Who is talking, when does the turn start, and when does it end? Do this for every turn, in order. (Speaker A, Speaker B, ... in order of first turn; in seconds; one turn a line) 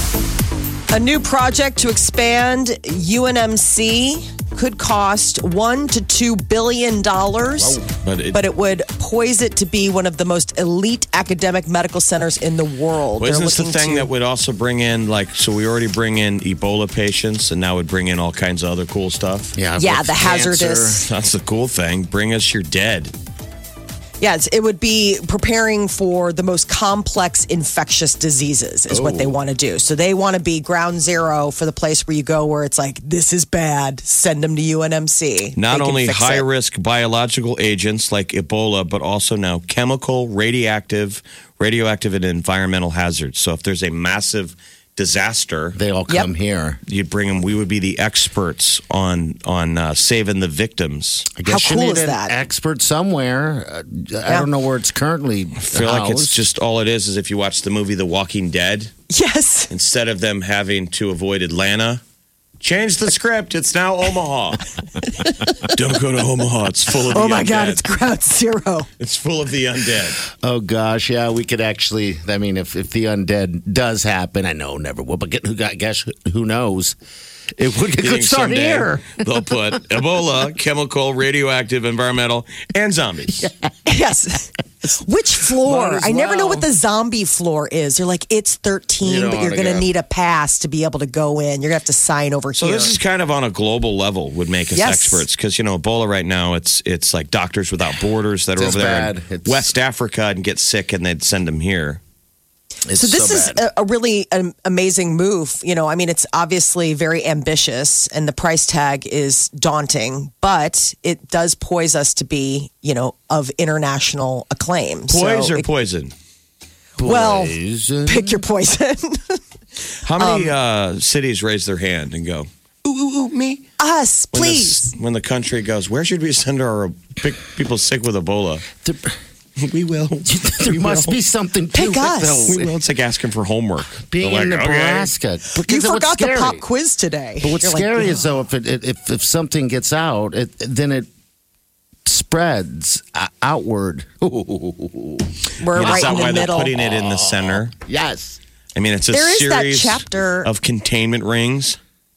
Speaker A: 0.9-7.8
Speaker B: 7.6-7.8
Speaker C: 8.0-8.4
Speaker A: 8.3-14.1
Speaker C: 13.2-19.5
Speaker B: 19.6-21.1
Speaker A: 19.8-21.0
Speaker C: 21.0-23.1
Speaker A: 24.2-36.4
Speaker B: 28.9-29.4
Speaker C: 35.5-45.8
Speaker B: 45.7-46.8
Speaker C: 46.9-51.3
Speaker B: 51.4-56.4
Speaker A: 51.5-52.3
Speaker C: 55.6-58.9
Speaker A: 59.1-59.7
Speaker C: 59.7-62.0
Speaker C: 62.6-64.6
Speaker C: 65.6-67.8
Speaker A: 67.1-68.9
Speaker C: 69.0-70.2
Speaker B: 70.3-77.0
Speaker B: 77.6-79.2
Speaker C: 78.0-83.5
Speaker B: 83.4-83.7
Speaker A: 83.8-92.9
Speaker B: 85.6-86.7
Speaker B: 89.0-89.9
Speaker C: 92.5-102.0
Speaker A: 94.7-95.2
Speaker B: 98.5-99.7
Speaker B: 102.8-103.6
Speaker A: 102.9-115.7
Speaker C: 115.1-116.1
Speaker B: 117.0-118.4
Speaker A: 117.0-119.4
Speaker C: 120.0-123.6
Speaker A: 120.1-120.5
Speaker A: 123.8-124.9
Speaker C: 124.3-128.7
Speaker B: 128.8-129.2
Speaker C: 129.6-131.2
Speaker B: 130.2-132.7
Speaker A: 131.7-132.5
Speaker C: 132.5-135.1
Speaker B: 134.1-136.6
Speaker A: 135.6-138.2
Speaker B: 137.4-141.1
Speaker B: 142.1-148.4
Speaker A: 145.6-146.7
Speaker C: 145.7-147.7
Speaker C: 148.7-151.8
Speaker A: 149.1-150.5